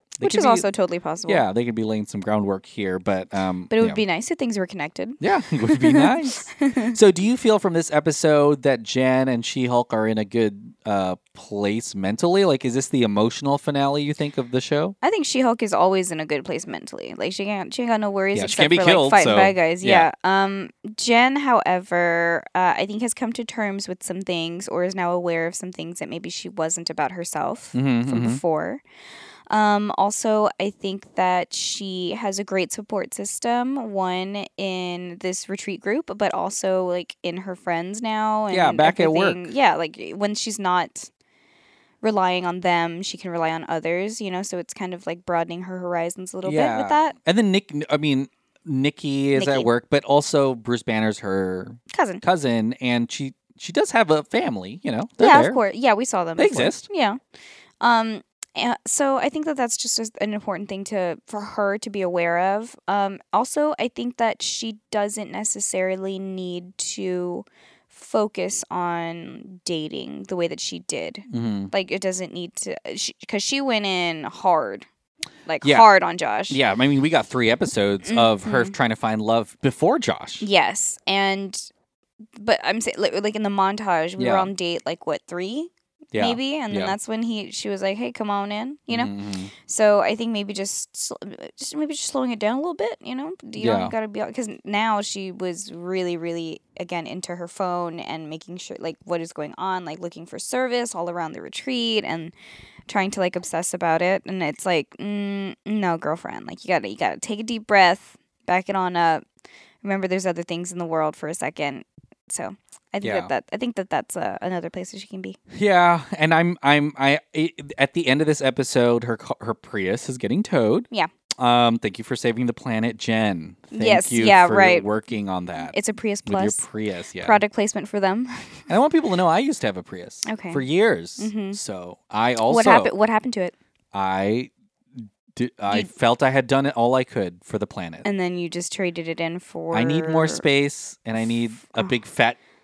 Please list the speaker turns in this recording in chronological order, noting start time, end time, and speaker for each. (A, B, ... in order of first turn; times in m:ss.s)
0:00.2-0:00.6 A
0:00.2-0:01.4 B
0:01.3-0:04.0 A
0:03.7-0:07.0 B
0:05.2-0:15.0 A
0:15.0-0:28.8 B
0:18.3-0:20.1 A
0:27.7-0:28.4 A
0:29.5-0:41.1 B
0:38.5-0:39.5 A
0:42.0-0:47.1 B
0:46.4-0:55.6 A
0:49.4-0:49.7 B
0:51.9-0:52.2 B
0:55.2-0:57.2 B
0:56.4-0:56.8 A
0:57.8-1:14.9 B
1:11.3-1:11.7 A
1:15.4-1:16.6 B
1:15.6-1:15.9 A
1:16.5-1:20.4 A
1:18.0-1:18.7 B
1:20.4-1:21.7 B
1:22.4-1:42.3 B
1:24.2-1:24.5 A
1:26.1-1:26.9 A
1:28.9-1:29.5 A
1:33.6-1:33.9 A
1:42.9-1:49.2 B
1:49.8-1:55.4 B
1:53.0-1:53.3 A
1:55.5-2:05.7 A
2:03.7-2:04.9 B
2:05.7-2:06.6 B
2:06.2-2:07.4 A
2:07.2-2:08.7 B
2:08.7-2:12.9 A
2:10.2-2:10.6 B
2:11.2-2:11.6 B
2:12.5-2:13.5 B
2:13.9-2:18.0 A
2:18.0-2:20.4 B
2:19.7-2:22.4 A